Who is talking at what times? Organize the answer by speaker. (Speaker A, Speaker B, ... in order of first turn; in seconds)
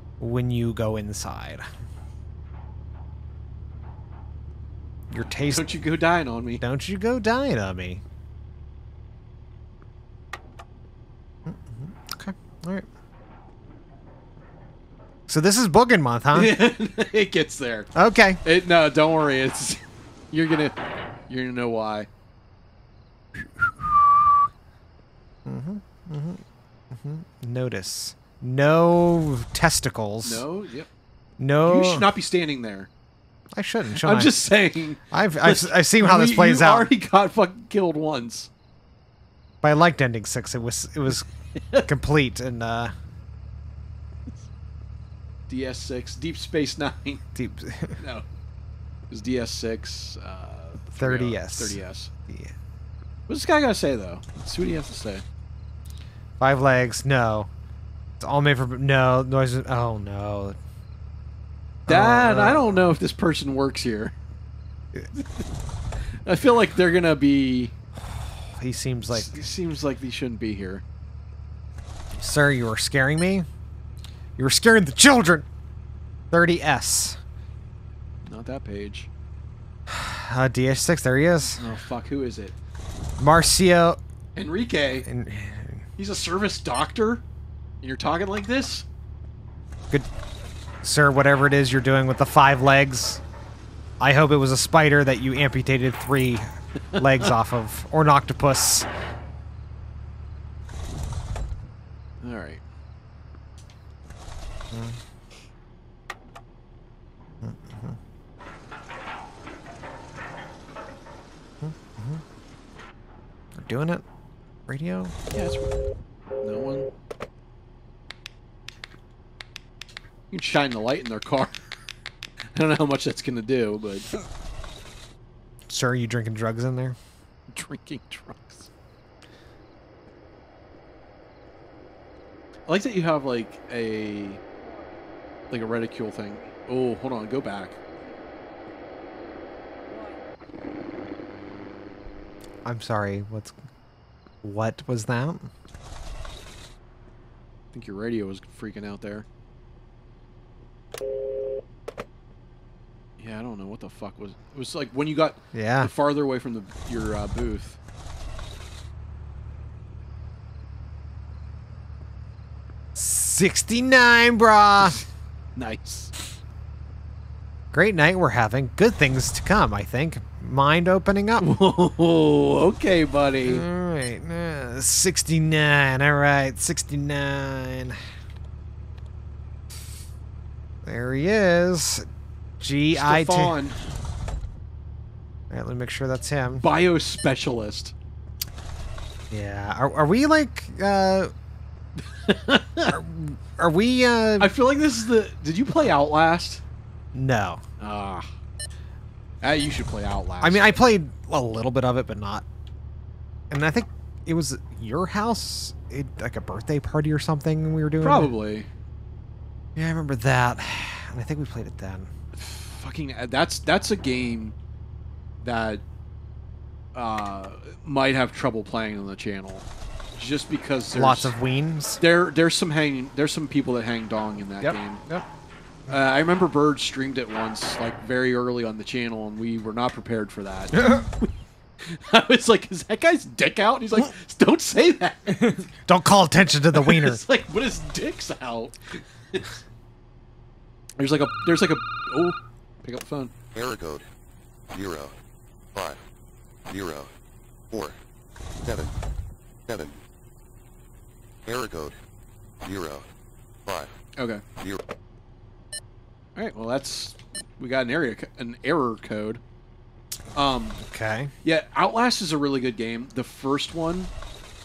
Speaker A: 0.2-1.6, 5.1-5.7, 6.6-8.0, 11.4-12.9, 15.3-16.5, 17.9-18.4, 25.4-30.4, 31.4-32.0, 33.5-34.3, 35.1-36.9, 39.6-41.3, 41.8-42.9, 47.3-48.0, 51.0-52.5, 56.4-57.5, 58.2-60.6, 61.9-62.6, 68.0-69.4, 72.2-73.5, 74.4-75.5, 76.3-77.2, 79.9-81.6, 83.2-84.0, 85.0-85.8, 90.8-93.2, 94.0-98.9, 104.7-105.0, 107.4-108.0, 111.6-112.2, 113.5-114.0, 114.7-115.1, 125.7-127.0, 142.6-143.5, 144.4-145.5, 155.5-155.9, 162.9-165.0, 167.7-171.4, 173.4-178.0, 180.8-182.1, 182.6-183.5, 185.5-186.6, 189.3-191.3, 192.9-194.5, 197.1-197.6, 200.4-202.4, 203.5-208.3, 209.8-212.1, 220.9-222.0, 224.6-225.2, 230.7-231.1, 235.8-237.2, 260.8-261.3
Speaker B: 5.5-6.6, 16.3-19.8, 20.3-20.8, 21.3-22.1, 30.2-30.9, 31.6-32.9, 33.9-38.5, 41.5-41.9, 45.5-47.2, 48.0-48.2, 49.1-52.1, 53.3-55.2, 61.9-64.1, 65.1-65.4, 66.1-67.7, 69.1-70.8, 78.2-79.1, 81.6-82.6, 84.3-85.0, 86.0-87.2, 87.8-88.8, 102.2-102.6, 115.3-115.7, 116.4-116.9, 120.3-121.7, 122.5-124.1, 127.5-128.7, 132.7-134.4, 135.5-137.8, 147.7-149.2, 153.2-157.8, 165.6-166.1, 171.4-173.7, 182.9-183.8, 186.6-187.9, 192.0-193.0, 194.4-196.6, 197.8-198.3, 199.4-200.7, 208.0-208.7, 212.3-214.6, 215.4-215.8, 216.9-219.7, 220.2-221.3, 222.0-225.0, 225.9-235.7, 236.7-239.5, 241.0-243.3, 254.2-254.4, 256.4-259.4, 260.3-260.8, 261.4-264.1
Speaker C: 243.5-244.0, 244.7-245.2, 246.7-247.1, 247.7-248.0, 248.6-248.9, 249.7-250.0, 251.4-251.9, 252.6-253.1, 253.7-253.9